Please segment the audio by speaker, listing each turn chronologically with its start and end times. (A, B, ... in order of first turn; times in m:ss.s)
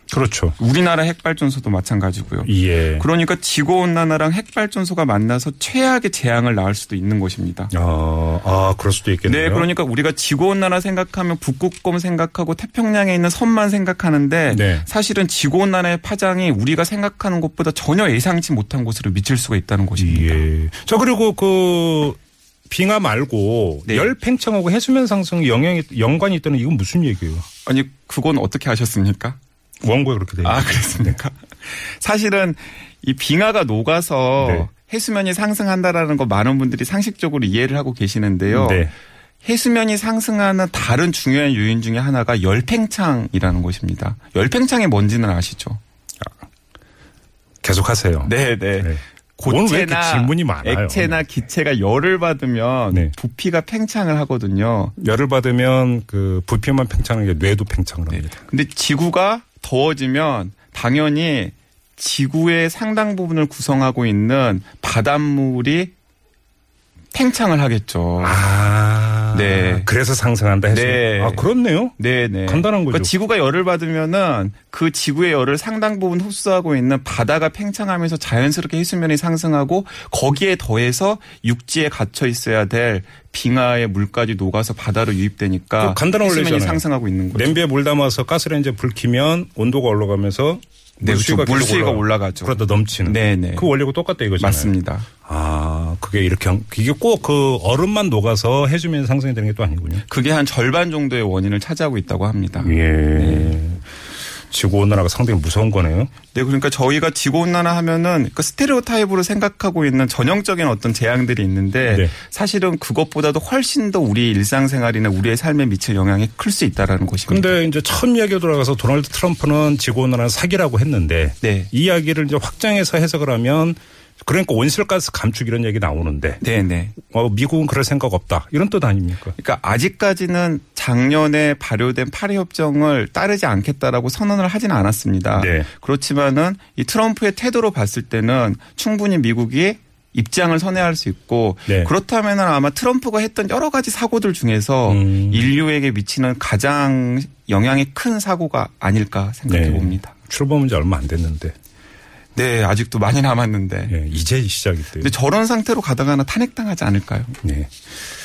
0:00.1-0:00.6 A
0:00.6-0:07.7 B
0:02.4-0:03.0 A
0:07.7-0:09.7 A
0:09.2-0:20.4 B
0:14.5-0:14.9 A
0:20.0-0:22.2 A
0:22.7-0:27.4 A
0:23.8-0:24.2 B
0:27.6-0:29.4 B
0:29.8-0:31.2 A
0:30.4-0:38.9 B
0:34.4-0:34.7 A
0:38.5-0:38.9 A
0:39.4-0:45.8 B
0:47.6-0:51.2 A
0:48.2-0:54.9 B
0:55.0-0:58.4 A
0:58.1-1:05.9 B
1:07.1-1:08.4 B
1:08.2-1:13.1 A
1:09.3-1:09.9 B
1:10.7-1:27.6 B
1:25.8-1:34.7 A
1:31.0-1:33.7 B
1:34.4-1:35.1 B
1:35.2-1:40.0 A
1:40.0-1:43.6 B
1:42.6-1:43.8 A
1:44.5-1:46.1 A
1:46.3-1:57.6 B
1:51.8-1:52.1 A
1:57.3-2:06.4 A
2:01.4-2:01.7 B
2:06.4-2:07.0 B
2:07.0-2:09.4 A
2:09.4-2:30.1 B
2:15.3-2:15.7 A
2:21.7-2:21.9 A
2:24.9-2:25.5 A
2:29.5-2:31.5 A
2:32.3-2:33.9 B
2:33.9-2:35.1 A
2:35.0-2:37.3 B
2:37.4-2:37.7 A